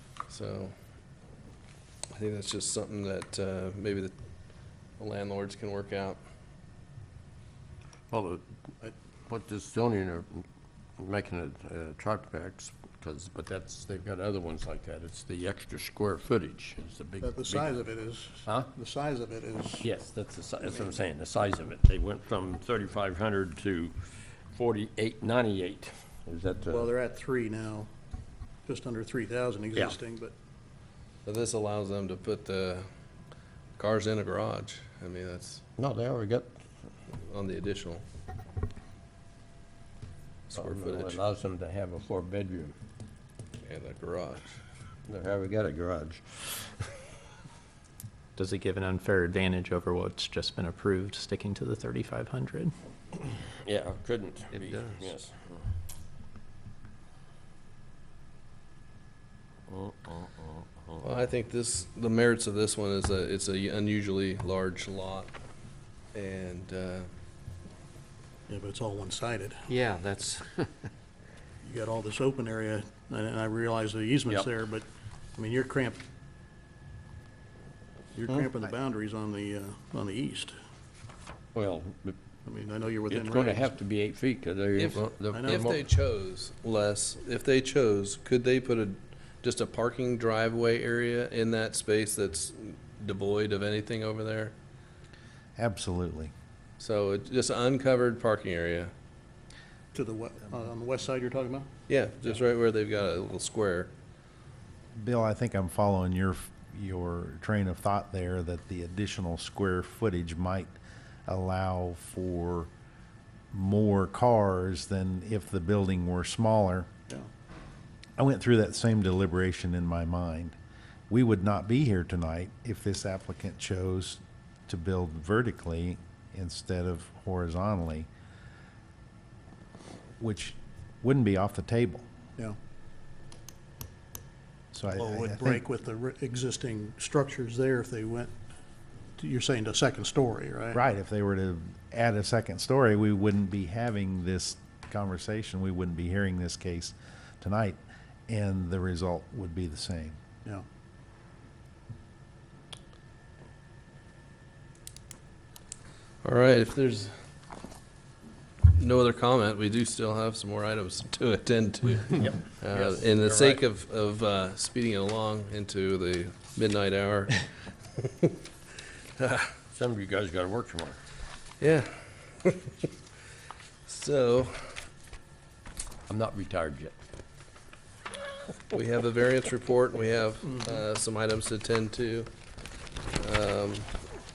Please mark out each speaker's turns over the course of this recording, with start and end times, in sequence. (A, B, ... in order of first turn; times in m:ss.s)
0:00.3-0:00.7 A
0:02.1-0:04.1 A
0:05.0-0:06.2 A
0:08.1-0:08.4 B
0:09.3-0:10.4 B
0:11.0-0:17.8 B
0:17.2-0:19.9 C
0:18.4-0:18.7 B
0:19.8-0:26.9 B
0:26.7-0:27.9 C
0:28.6-0:30.3 C
0:31.2-0:32.8 A
0:33.8-0:35.6 A
0:35.8-0:36.5 B
0:37.3-0:38.0 A
0:40.5-0:41.2 A
0:40.5-0:42.7 B
0:43.6-0:44.5 A
0:45.1-0:46.9 B
0:48.4-0:52.7 D
0:53.6-0:55.6 B
0:59.7-1:01.0 B
1:01.0-1:05.3 A
1:06.1-1:07.1 A
1:08.5-1:09.7 C
1:09.7-1:10.4 D
1:11.6-1:14.8 C
1:15.4-1:16.0 C
1:18.1-1:20.5 C
1:21.5-1:22.2 B
1:22.4-1:23.7 C
1:23.1-1:25.9 B
1:24.8-1:34.5 A
1:25.3-1:25.7 C
1:35.6-1:36.3 E
1:36.8-1:38.9 A
1:39.9-1:41.6 C
1:41.9-1:43.9 A
1:45.0-1:50.7 E
1:51.2-1:52.7 E
1:53.5-1:56.9 E
1:58.2-2:00.6 E
2:01.1-2:08.1 E
2:10.2-2:12.0 E
2:14.7-2:15.6 E
2:15.0-2:18.3 C
2:19.2-2:20.8 C
2:20.7-2:30.2 E
2:36.2-2:37.1 A
2:38.7-2:47.4 A
2:42.1-2:43.6 B
2:48.0-2:48.3 A
2:49.2-2:49.5 A
2:49.7-2:51.0 B
2:51.6-2:52.7 A
2:53.8-2:54.8 A
2:56.1-2:56.9 B
2:58.7-3:02.3 A
3:03.1-3:03.9 A